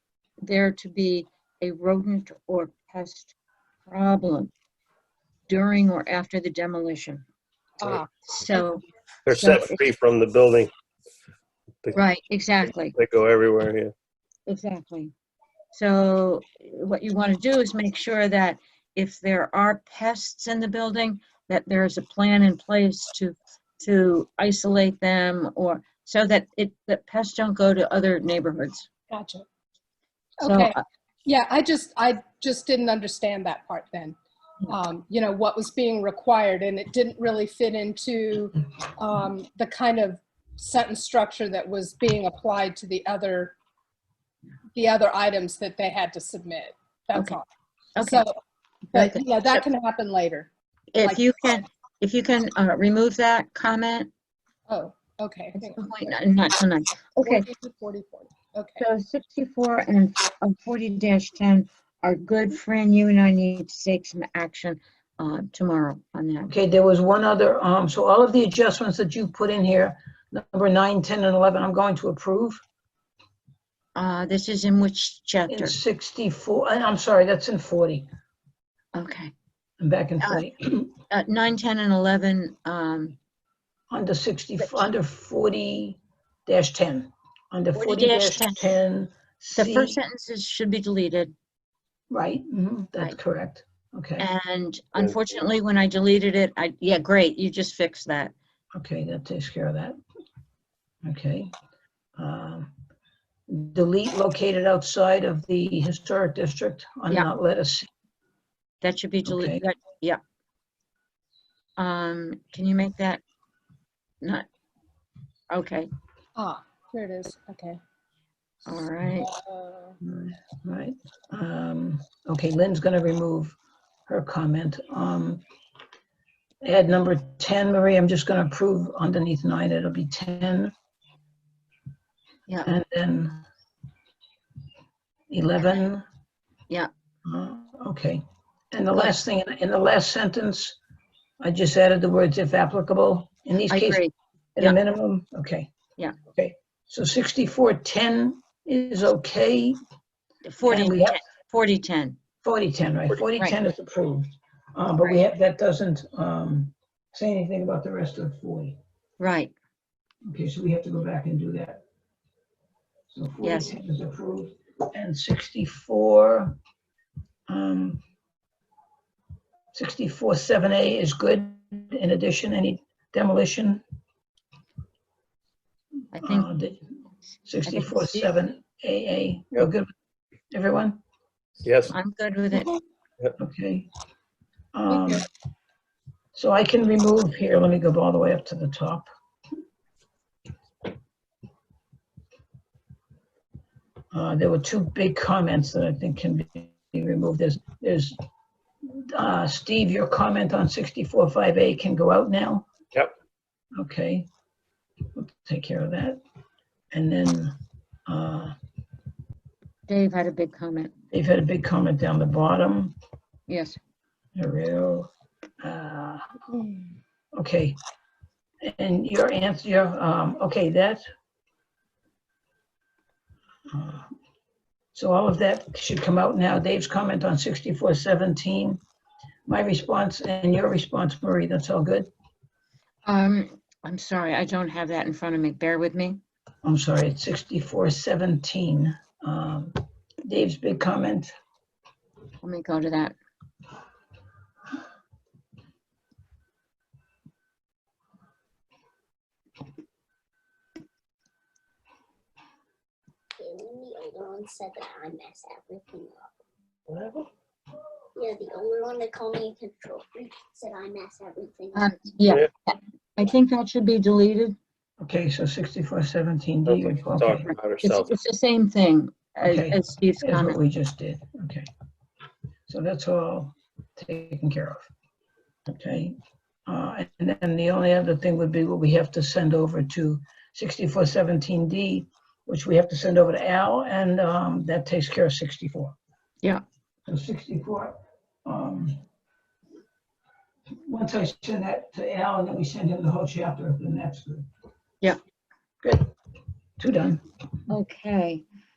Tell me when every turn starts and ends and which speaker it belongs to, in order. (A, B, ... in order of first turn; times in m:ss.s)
0:00.4-0:03.3 A
0:03.9-0:04.5 A
0:05.5-0:07.2 A
0:07.8-0:08.1 B
0:08.2-0:09.8 A
0:09.2-0:10.7 C
0:11.9-0:12.9 A
0:12.6-0:13.9 C
0:14.5-0:15.1 A
0:15.7-0:28.9 A
0:29.1-0:29.4 B
0:30.4-0:30.7 B
0:30.4-0:30.8 A
0:31.2-0:34.2 B
0:34.7-0:43.5 B
0:44.8-0:47.4 B
0:47.1-0:47.4 A
0:48.0-0:48.2 A
0:48.0-0:48.3 B
0:48.9-0:50.5 B
0:48.9-0:49.6 A
0:50.9-0:54.1 A
0:51.0-0:51.3 B
0:54.7-0:55.8 B
0:55.5-0:57.5 A
0:57.2-0:58.8 B
0:58.8-1:06.5 A
1:06.4-1:12.6 D
1:13.9-1:15.8 A
1:15.5-1:18.1 D
1:18.9-1:19.3 A
1:19.8-1:21.0 D
1:21.1-1:23.2 A
1:23.9-1:30.0 D
1:27.7-1:28.6 A
1:29.6-1:31.3 A
1:32.1-1:34.3 D
1:34.2-1:38.3 A
1:38.7-1:40.0 D
1:41.0-1:41.5 D
1:42.2-1:42.7 D
1:43.5-1:47.9 D
1:48.8-1:50.2 A
1:49.2-1:49.6 D
1:51.8-1:53.2 A
1:55.5-1:55.9 A
1:56.4-1:57.8 B
1:58.6-1:59.3 A
1:59.2-2:00.0 B
2:00.0-2:03.6 D
2:04.1-2:05.4 D
2:06.6-2:10.7 D
2:12.6-2:13.4 D
2:15.3-2:16.0 D
2:17.2-2:20.8 D
2:18.9-2:19.2 A
2:21.4-2:24.0 D
2:23.7-2:24.8 A
2:24.6-2:25.7 D
2:26.3-2:29.8 D
2:30.4-2:32.2 A
2:30.6-2:31.2 D
2:32.4-2:38.8 D
2:39.2-2:39.5 A
2:40.2-2:41.8 D
2:43.1-2:46.6 D
2:43.4-2:43.8 A
2:47.5-2:48.0 D
2:49.7-2:53.8 D
2:56.1-2:56.5 A
2:56.2-2:56.8 D
2:57.4-2:59.9 D
2:57.6-2:58.3 A
3:00.5-3:01.0 D
3:01.6-3:01.9 C
3:01.9-3:02.7 A
3:03.4-3:03.9 D
3:04.7-3:05.2 D
3:06.3-3:09.1 D
3:14.1-3:18.2 D
3:18.8-3:22.7 D
3:23.7-3:24.3 D
3:25.1-3:26.2 D
3:26.9-3:27.6 D
3:28.1-3:28.5 D
3:29.9-3:30.9 A
3:31.1-3:33.0 D
3:33.5-3:33.8 A
3:34.4-3:35.1 D
3:35.6-3:36.2 D
3:36.5-3:36.9 B
3:37.3-3:37.8 D
3:38.6-3:41.0 D
3:43.7-3:44.1 D
3:44.9-3:48.8 D
3:49.5-3:52.1 D
3:53.0-3:56.2 A
3:56.6-4:01.3 D
4:02.4-4:03.2 A
4:13.3-4:16.4 E
4:16.9-4:17.3 C
4:18.1-4:21.9 E
4:21.7-4:24.6 A
4:25.0-4:27.5 D
4:26.7-4:28.1 C
4:27.8-4:30.6 A
4:29.4-4:31.7 D
4:32.7-4:34.9 D
4:35.7-4:36.1 D
4:36.7-4:45.9 D
4:47.1-4:49.0 D
4:50.8-4:54.5 D
4:55.8-4:56.1 D
4:56.8-4:57.2 D
4:57.7-4:58.4 A